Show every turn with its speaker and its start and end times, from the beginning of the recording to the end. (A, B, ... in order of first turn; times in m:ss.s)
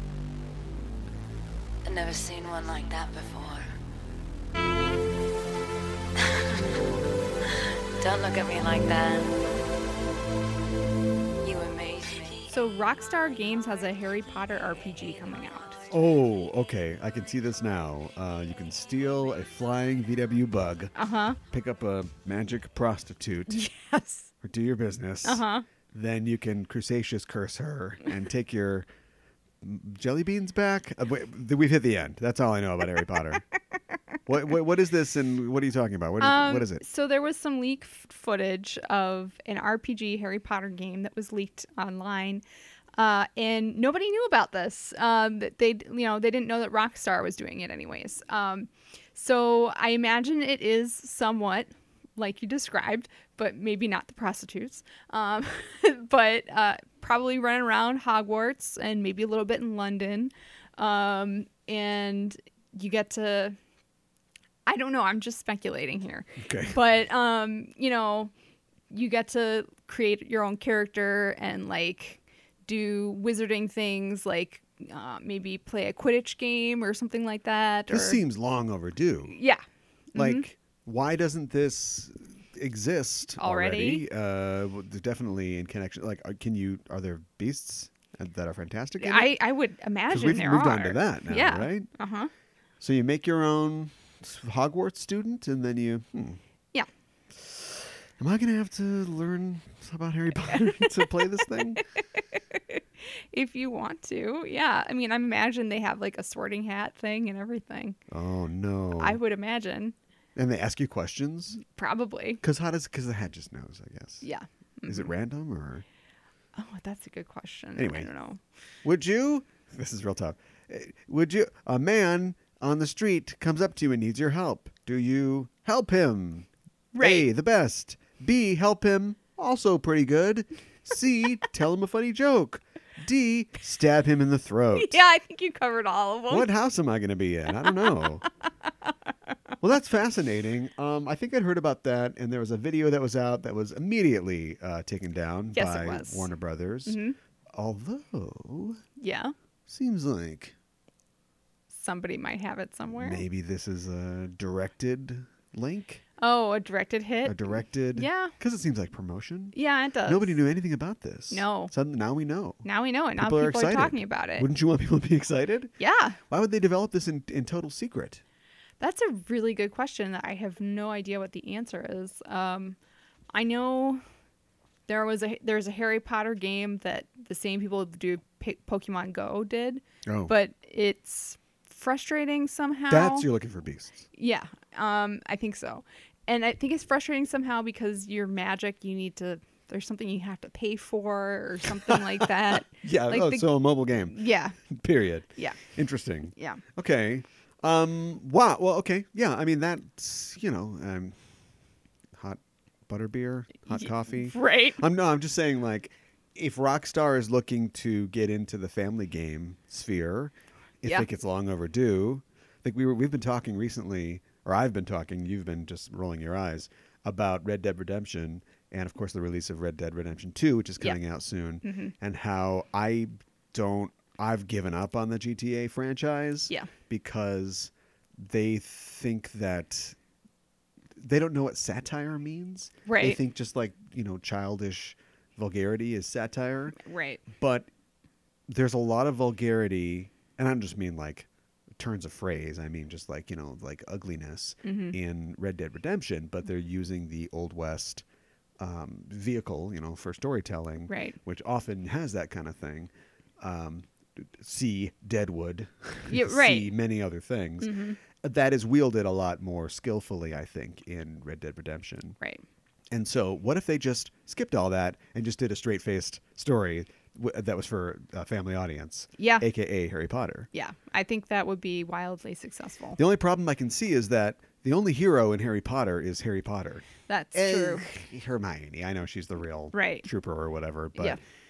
0:01.8-0:03.7 A
0:06.3-0:06.6 A
0:08.0-0:09.3 A
0:11.4-0:12.5 A
0:12.5-0:15.8 B
0:15.9-0:20.9 C
0:21.0-0:21.4 B
0:21.4-0:23.7 C
0:23.5-0:24.3 B
0:24.4-0:28.9 C
0:25.2-0:25.6 B
0:29.6-0:33.4 C
0:34.2-0:36.8 C
0:36.2-0:42.4 B
0:43.0-1:03.6 B
1:04.6-1:08.3 B
1:06.4-1:06.7 C
1:08.9-1:18.2 B
1:17.9-1:19.3 C
1:19.3-1:19.6 B
1:20.1-1:20.4 B
1:20.1-1:29.3 C
1:23.4-1:24.0 B
1:29.0-1:32.3 B
1:30.1-1:31.9 C
1:32.8-1:36.4 C
1:37.3-1:41.8 C
1:40.5-1:41.0 B
1:41.8-1:48.0 B
1:48.1-1:49.2 C
1:49.0-1:49.9 B
1:50.4-1:51.6 C
1:51.6-1:52.4 B
1:52.4-1:54.2 C
1:54.2-1:55.1 B
1:54.9-1:55.8 C
1:56.6-1:58.4 B
1:57.8-1:58.1 C
1:58.8-2:15.0 C
2:07.0-2:07.3 B
2:14.7-2:16.5 B
2:16.3-2:18.2 C
2:17.6-2:17.9 B
2:19.6-2:27.0 C
2:25.5-2:26.3 B
2:26.8-2:27.1 B
2:27.5-2:28.8 C
2:29.0-2:29.3 B
2:29.7-2:30.5 C
2:31.7-2:33.2 B
2:32.9-2:36.0 C
2:36.2-2:38.3 B
2:37.2-2:42.6 C
2:39.5-2:40.4 B
2:41.3-2:41.7 B
2:42.6-2:44.5 B
2:43.2-2:45.7 C
2:45.8-2:46.2 B
2:46.3-2:48.2 C
2:48.8-2:52.8 B
2:53.3-2:54.0 B
2:54.9-3:03.3 B
3:00.0-3:00.3 C
3:02.9-3:04.0 C
3:04.1-3:13.5 B
3:11.8-3:21.2 C
3:14.1-3:14.6 B
3:16.4-3:16.6 B
3:22.1-3:50.0 C
3:23.7-3:24.8 B
3:41.6-3:41.9 B
3:51.0-3:56.8 C
3:52.8-3:53.2 B
3:56.8-3:57.2 B
3:57.3-3:57.7 C
3:58.5-4:08.0 C
4:04.6-4:05.0 B
4:08.6-4:22.2 C
4:10.9-4:11.2 B
4:16.1-4:16.7 B
4:17.6-4:18.0 B
4:22.9-4:30.5 C
4:29.2-4:29.4 B
4:30.5-4:33.0 B
4:33.0-4:41.2 C
4:37.1-4:37.9 B
4:39.7-4:40.0 B